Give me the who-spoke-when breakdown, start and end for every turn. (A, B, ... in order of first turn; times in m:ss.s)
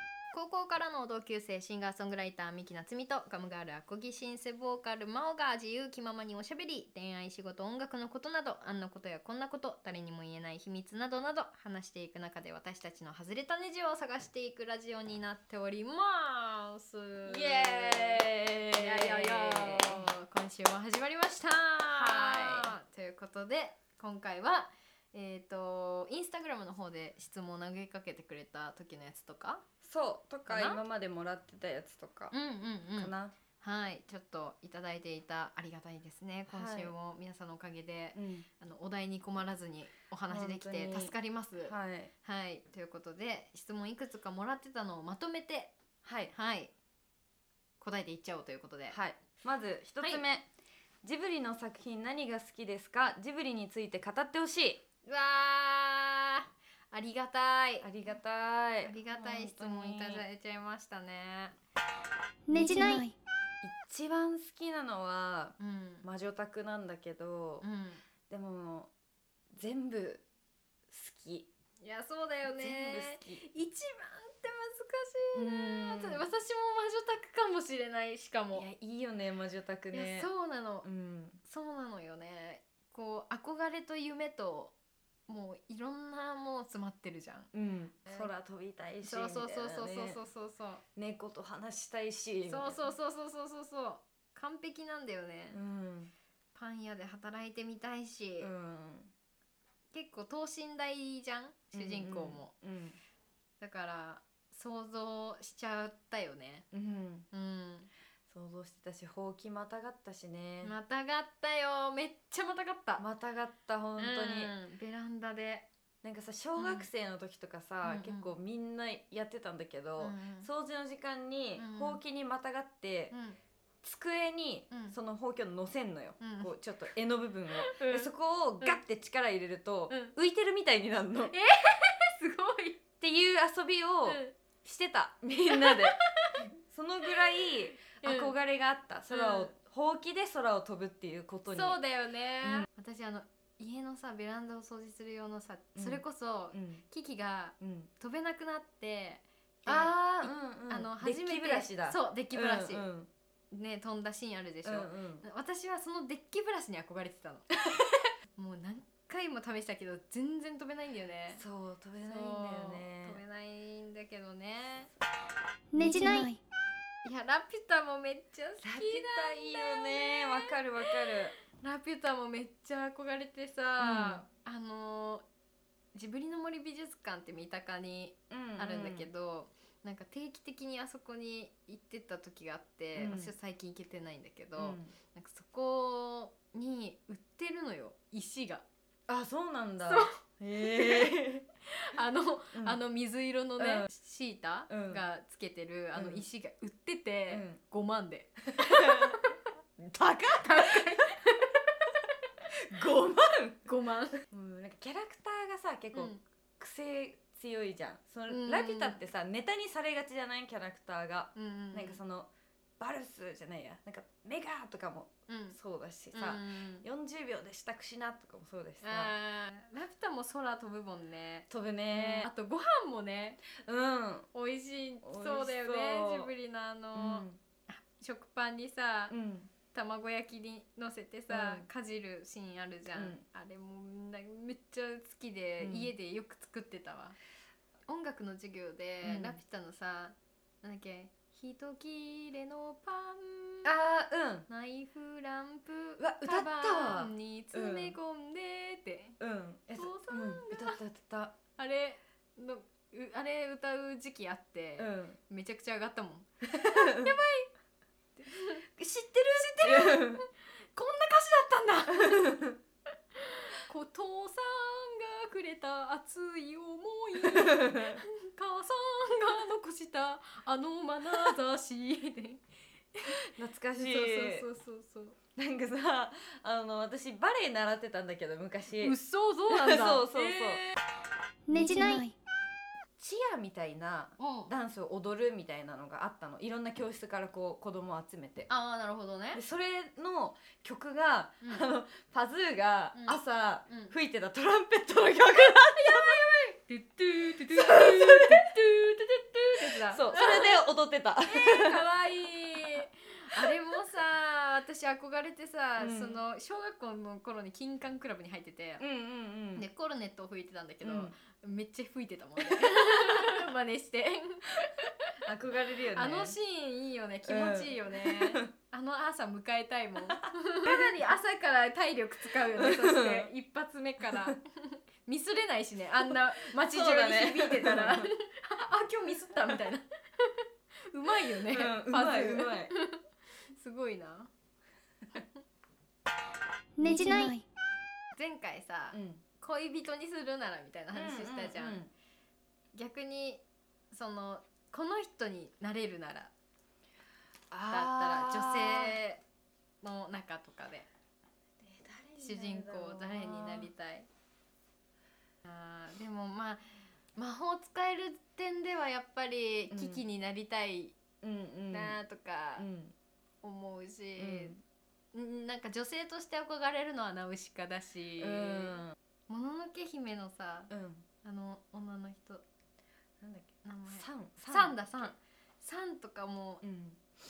0:00.3-0:29.6 A
0:17.2-0:20.1 B
0:21.9-0:22.7 B
0:29.8-0:32.3 B
0:30.5-0:30.8 A
0:32.3-0:45.8 A
0:33.0-0:33.3 B
0:36.5-0:36.9 B
0:38.1-0:38.5 B
0:40.3-0:42.1 B
0:46.0-0:46.3 B
0:46.3-0:46.7 A
0:47.8-0:49.0 A
0:48.9-0:50.5 B
0:51.0-0:54.8 B
0:55.0-0:57.9 A
0:57.8-1:00.2 B
0:58.8-1:01.6 A
1:02.5-1:03.1 A
1:03.6-1:07.6 B
1:05.6-1:06.0 A
1:07.6-1:08.0 A
1:08.3-1:08.9 B
1:09.5-1:10.2 B
1:10.9-1:11.5 B
1:11.8-1:18.7 A
1:12.4-1:13.4 B
1:15.3-1:16.2 B
1:18.5-1:20.3 B
1:19.9-1:20.9 A
1:20.8-1:21.4 B
1:21.4-1:24.7 A
1:25.3-1:27.5 A
1:27.5-1:30.2 B
1:29.0-1:30.8 A
1:31.0-1:32.9 B
1:32.5-1:35.6 A
1:35.5-1:36.1 B
1:36.5-1:38.5 A
1:38.4-1:39.1 B
1:39.9-1:42.5 A
1:41.7-1:43.0 B
1:43.6-1:46.7 A
1:46.7-1:47.3 B
1:47.3-1:47.9 A
1:48.3-1:50.7 B
1:50.6-1:53.0 A
1:53.0-1:54.5 B
1:54.0-1:55.7 A
1:56.0-2:03.1 B
1:56.6-1:56.9 A
1:57.8-1:58.3 A
2:00.0-2:00.5 A
2:01.6-2:02.0 A
2:03.1-2:03.4 A
2:03.8-2:11.3 B
2:04.7-2:05.0 A
2:06.2-2:06.5 A
2:07.6-2:08.8 A
2:11.3-2:12.8 A
2:13.0-2:16.0 B
2:14.1-2:14.3 A
2:15.5-2:16.4 A
2:16.6-2:21.8 B
2:18.0-2:18.3 A
2:19.1-2:19.5 A
2:21.5-2:32.8 A
2:25.8-2:26.8 B
2:27.6-2:27.9 B
2:29.6-2:33.1 B
2:33.5-2:37.6 A
2:34.6-2:35.2 B
2:38.3-2:41.4 A
2:41.3-2:43.2 B
2:42.0-2:44.9 A
2:45.7-2:46.3 A
2:47.0-2:50.5 A
2:48.6-2:51.3 B
2:51.4-2:55.2 A
2:53.8-2:54.2 B
2:55.9-3:08.6 A
2:58.3-2:59.1 B
3:03.0-3:03.3 B
3:04.6-3:04.9 B
3:09.1-3:11.4 B
3:09.8-3:11.1 A
3:11.7-3:19.4 A
3:12.5-3:12.8 B
3:13.6-3:13.8 B
3:14.7-3:15.0 B
3:16.0-3:16.2 B
3:17.3-3:17.6 B
3:18.5-3:19.2 B
3:19.8-3:21.0 B
3:20.3-3:21.9 A
3:22.5-3:23.7 B
3:23.7-3:24.2 A
3:24.3-3:39.1 B
3:25.9-3:26.2 A
3:28.3-3:29.0 A
3:31.3-3:32.0 A
3:35.3-3:35.6 A
3:36.1-3:36.8 A
3:38.8-3:43.4 A
3:41.5-3:42.3 B
3:43.6-3:44.3 B
3:44.3-3:49.1 A
3:45.0-3:46.3 B
3:46.9-3:47.4 B
3:49.1-3:49.5 B
3:49.7-3:57.2 A
3:51.3-3:51.6 B
3:52.9-3:53.2 B
3:55.6-3:55.9 B
3:57.9-4:03.7 A
3:59.0-3:59.4 B
4:03.6-4:04.5 B
4:04.5-4:09.2 A
4:06.0-4:07.9 B
4:09.2-4:11.4 B
4:09.8-4:10.8 A
4:11.6-4:17.5 A
4:14.8-4:15.2 B
4:16.4-4:17.1 B
4:18.2-4:18.6 A
4:18.8-4:20.2 B
4:19.3-4:22.4 A
4:22.0-4:22.6 B
4:23.1-4:32.4 A
4:27.2-4:28.0 B
4:32.9-4:35.2 A
4:33.2-4:34.4 B
4:35.3-4:39.0 B
4:38.8-4:40.8 A
4:39.5-4:40.6 B
4:41.5-4:42.0 A
4:43.0-4:48.5 B
4:44.2-4:44.5 A
4:48.5-4:49.4 A
4:49.3-4:56.2 B
4:52.9-4:53.9 A
4:55.6-5:00.6 A
4:57.5-4:58.4 B
4:59.6-5:01.9 B
5:01.2-5:08.8 A
5:05.8-5:06.2 B
5:08.8-5:09.6 B
5:09.5-5:15.1 A
5:10.8-5:11.1 B
5:12.5-5:13.2 B
5:15.2-5:16.3 B
5:15.9-5:34.3 A
5:17.2-5:18.5 B
5:20.7-5:20.9 B
5:22.6-5:23.3 B
5:24.0-5:24.3 B
5:26.4-5:28.1 B
5:31.1-5:32.7 B
5:35.1-5:35.4 A
5:36.8-5:37.3 A
5:38.2-5:41.8 A
5:38.9-5:39.2 B
5:40.9-5:41.9 B
5:42.7-5:46.3 A
5:47.5-5:49.0 B
5:47.7-5:49.2 A
5:49.8-5:50.9 A
5:51.6-5:53.7 B
5:52.2-5:54.1 A
5:55.4-5:56.6 A
5:57.2-6:01.0 A
5:59.7-6:00.0 B
6:01.2-6:02.0 B
6:01.7-6:02.6 A
6:02.6-6:02.9 B
6:03.4-6:04.6 A
6:04.2-6:04.6 B
6:05.1-6:10.7 A
6:08.2-6:09.0 B
6:10.7-6:11.0 B
6:11.2-6:12.4 A
6:13.2-6:15.1 B
6:13.6-6:16.6 A
6:16.6-6:17.0 B